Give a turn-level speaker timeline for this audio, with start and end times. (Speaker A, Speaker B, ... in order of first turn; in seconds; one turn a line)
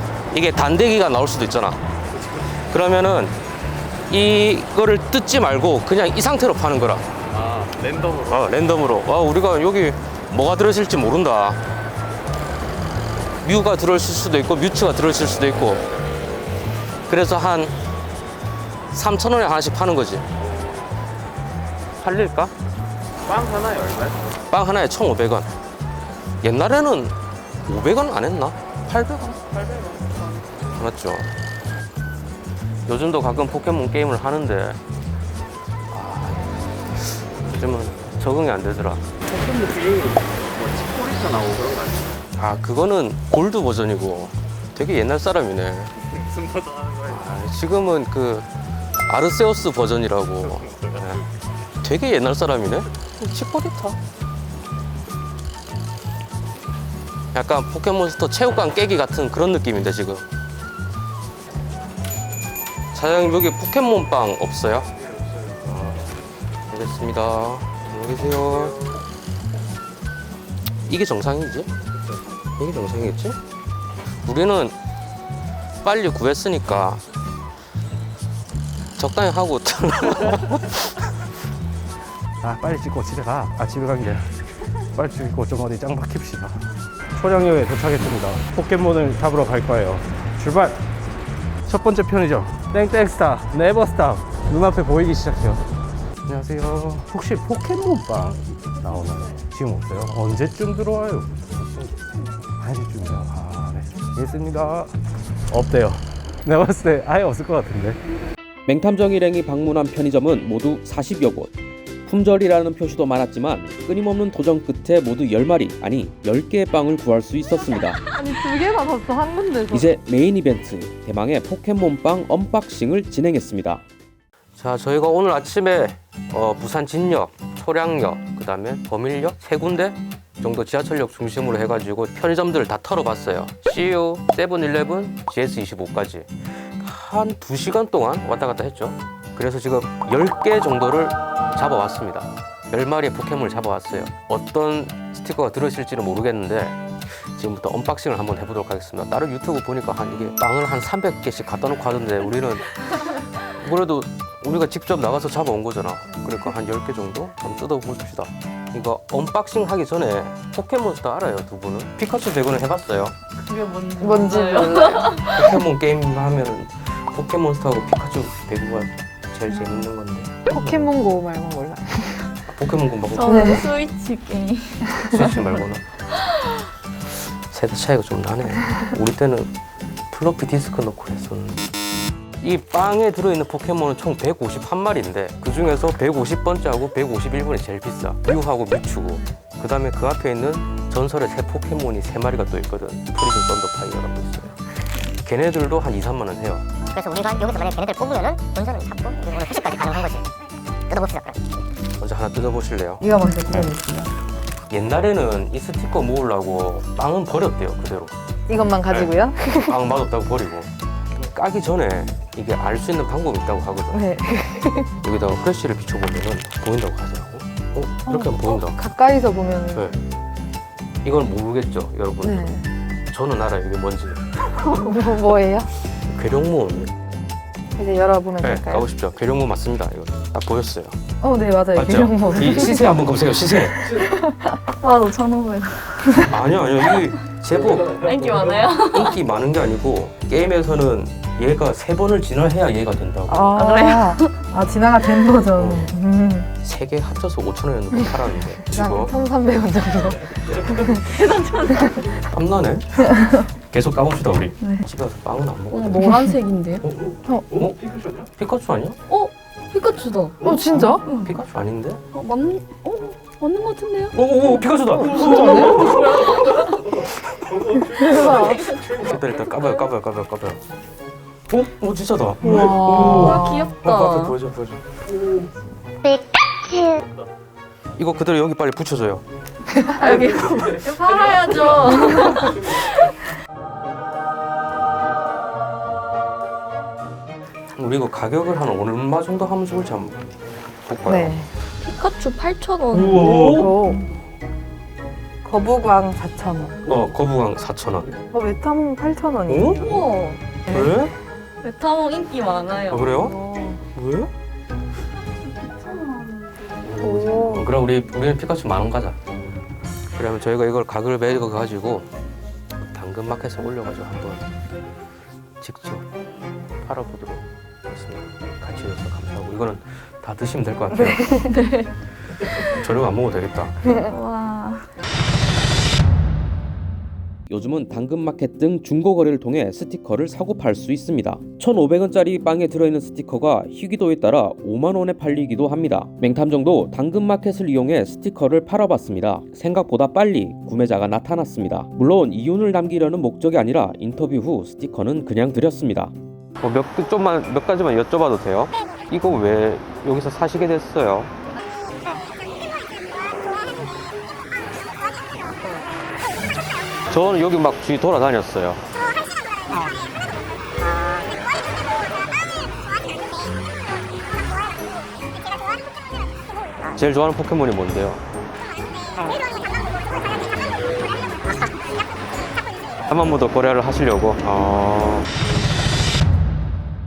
Speaker A: 0.3-1.8
Speaker A: 2.7-3.4
Speaker A: 4.1-7.1
Speaker B: 7.4-8.4
Speaker A: 8.2-11.6
Speaker A: 13.4-15.8
Speaker A: 17.1-17.8
Speaker A: 18.9-20.3
Speaker A: 22.0-22.5
Speaker B: 23.3-24.2
Speaker A: 24.5-25.5
Speaker A: 26.4-29.4
Speaker C: 29.4-30.0
Speaker A: 30.7-31.3
Speaker A: 32.9-34.8
Speaker A: 35.9-39.1
Speaker B: 39.3-42.1
Speaker A: 42.4-45.9
Speaker A: 47.0-48.5
Speaker A: 49.1-51.2
Speaker A: 51.8-54.0
Speaker A: 57.3-60.2
Speaker A: 62.9-64.9
Speaker A: 65.6-66.0
Speaker A: 66.7-68.8
Speaker A: 70.9-71.7
Speaker A: 72.6-73.4
Speaker A: 74.2-74.8
Speaker A: 75.8-77.0
Speaker A: 79.0-81.1
Speaker D: 82.4-90.8
Speaker D: 91.7-95.6
Speaker D: 96.3-102.0
Speaker D: 102.6-104.9
Speaker D: 105.5-108.0
Speaker A: 108.7-111.5
Speaker A: 112.0-118.1
Speaker E: 118.0-119.9
Speaker A: 119.7-123.8
Speaker A: 124.6-163.2
Speaker C: 163.4-165.6
Speaker E: 164.0-165.2
Speaker A: 165.2-170.9
Speaker E: 170.5-172.3
Speaker A: 172.5-173.7
Speaker C: 173.1-175.6
Speaker E: 173.2-173.7
Speaker A: 175.0-175.8
Speaker C: 176.2-176.6
Speaker A: 177.1-179.5
Speaker A: 180.1-181.7
Speaker A: 182.4-196.8
Speaker F: 196.9-200.2
Speaker F: 200.9-201.4
Speaker A: 202.0-203.7
Speaker E: 203.0-204.1
Speaker A: 204.7-208.1
Speaker E: 208.5-209.8
Speaker A: 208.8-214.2
Speaker E: 213.9-214.9
Speaker A: 215.0-218.8
Speaker E: 218.1-219.9
Speaker A: 221.0-222.6
Speaker E: 222.2-222.6
Speaker A: 223.1-224.6
Speaker E: 224.6-225.7
Speaker A: 226.0-226.9
Speaker E: 227.8-228.8
Speaker A: 228.4-231.0
Speaker E: 231.2-234.5
Speaker A: 231.7-234.0
Speaker C: 234.7-236.3
Speaker A: 236.2-238.1
Speaker C: 237.8-239.2
Speaker A: 238.9-243.6
Speaker E: 243.3-246.5
Speaker C: 243.6-244.4
Speaker A: 245.6-245.9
Speaker A: 246.6-249.1
Speaker E: 248.7-251.1
Speaker C: 251.0-252.1
Speaker A: 252.3-256.1
Speaker C: 255.7-256.9
Speaker E: 256.0-256.4
Speaker A: 256.8-257.8
Speaker E: 257.2-257.6
Speaker A: 258.4-259.0
Speaker C: 259.1-261.3
Speaker E: 260.4-261.0
Speaker A: 260.7-262.0
Speaker C: 262.1-264.1
Speaker A: 264.1-268.2
Speaker E: 264.6-266.0
Speaker C: 265.2-266.9
Speaker E: 267.8-268.8
Speaker C: 268.3-268.9
Speaker A: 268.9-270.6
Speaker C: 269.5-269.8
Speaker A: 271.5-274.8
Speaker E: 272.4-273.5
Speaker C: 272.9-274.4
Speaker A: 278.0-279.2
Speaker C: 280.0-282.8
Speaker A: 287.8-290.3
Speaker A: 290.9-291.4
Speaker E: 291.1-291.5
Speaker C: 291.8-293.3
Speaker A: 292.9-293.8
Speaker E: 293.1-294.0
Speaker E: 295.4-296.8
Speaker A: 296.9-298.2
Speaker E: 298.3-300.0
Speaker A: 299.5-299.9
Speaker C: 299.8-300.4
Speaker E: 300.7-301.0
Speaker A: 300.7-301.1
Speaker C: 301.6-303.3
Speaker A: 302.9-303.3
Speaker E: 303.2-303.8
Speaker A: 303.9-304.3
Speaker C: 305.6-306.6
Speaker A: 306.8-309.2
Speaker E: 307.0-307.7
Speaker A: 310.1-312.1
Speaker A: 312.8-314.5
Speaker A: 315.6-316.1
Speaker A: 316.8-321.5
Speaker C: 321.4-321.9
Speaker A: 322.7-324.0
Speaker C: 324.1-324.9
Speaker A: 327.5-351.3
Speaker A: 357.1-358.8
Speaker A: 366.9-368.2
Speaker A: 373.1-375.3